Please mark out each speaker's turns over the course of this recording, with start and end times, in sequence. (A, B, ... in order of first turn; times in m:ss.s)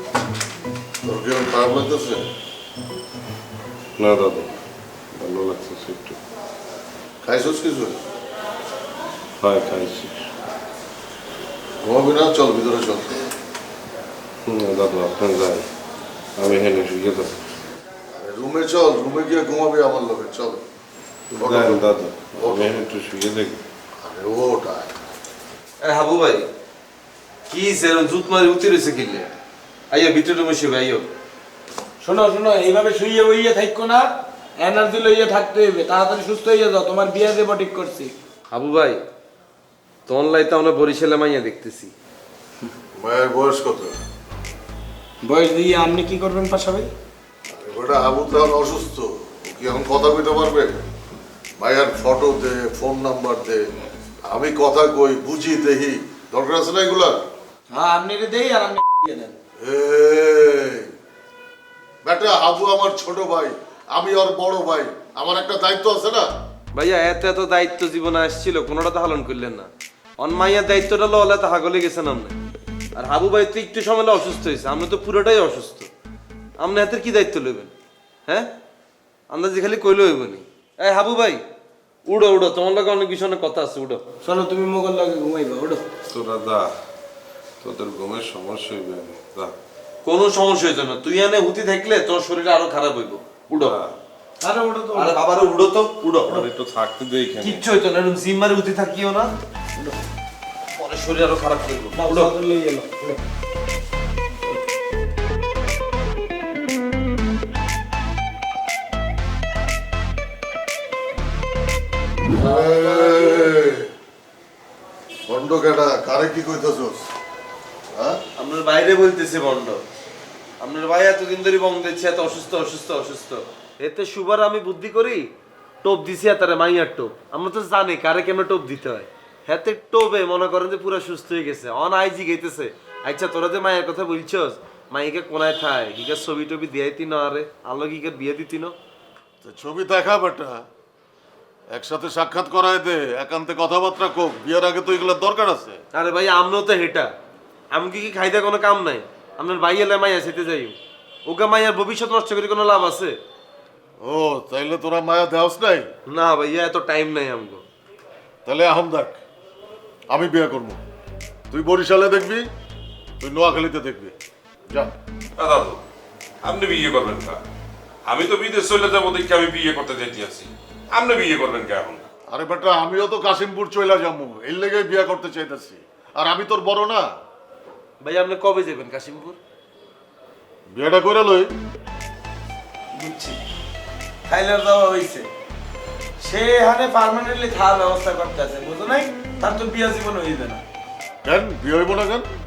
0:01.0-0:02.2 A
0:04.0-0:04.6 B
0:05.1-0:06.2 B
0:07.2-0:08.0 A
0:09.4-0:10.3 B
0:11.8-0:13.2 A
0:14.4-0:15.7 B
0:16.4-0:17.5 B
0:18.2-0:20.6 A
0:21.3-0:23.6 B
0:21.4-0:22.8 A
0:24.0-0:24.9 A
0:25.8-0:26.5 C
0:27.5-0:29.3 C
0:29.9-0:31.1 C
0:32.0-0:38.1 D
0:38.5-0:39.0 C
0:40.1-0:41.9 C
0:43.0-0:44.0 A
0:45.2-0:46.9 D
0:47.5-0:50.7 A
0:51.6-0:53.6 A
0:54.3-0:57.2 A
0:57.7-0:59.4 D
0:59.6-1:00.9 A
1:02.0-1:06.2 A
1:06.7-1:12.4 C
1:13.0-1:15.9 C
1:16.6-1:17.7 C
1:19.3-1:21.4 C
1:22.1-1:24.0 C
1:24.2-1:25.8 D
1:26.1-1:26.7 B
1:27.6-1:29.5 B
1:30.0-1:33.8 C
1:33.6-1:33.9 B
1:34.4-1:35.2 D
1:34.9-1:36.5 C
1:36.3-1:37.6 B
1:37.4-1:39.3 C
1:40.7-1:42.3 C
1:41.9-1:43.2 D
1:52.3-1:53.8 A
1:52.4-1:53.5 C
1:55.3-1:57.1 A
1:58.4-1:59.8 C
2:00.6-2:05.3 C
2:05.8-2:18.7 C
2:19.4-2:20.6 A
2:21.7-2:25.8 A
2:25.9-2:27.1 C
2:27.7-2:33.2 C
2:34.0-2:35.9 A
2:36.1-2:37.6 C
2:38.4-2:39.2 A
2:40.1-2:40.8 A
2:41.5-2:42.4 A
2:43.2-2:44.1 A
2:45.4-2:45.8 E
2:46.4-2:47.4 E
2:48.0-2:52.0 E
2:52.3-2:57.0 A
2:58.0-2:59.4 C
3:00.7-3:01.5 A
3:02.9-3:03.4 D
3:04.3-3:05.3 D
3:06.2-3:10.6 D
3:11.2-3:12.3 A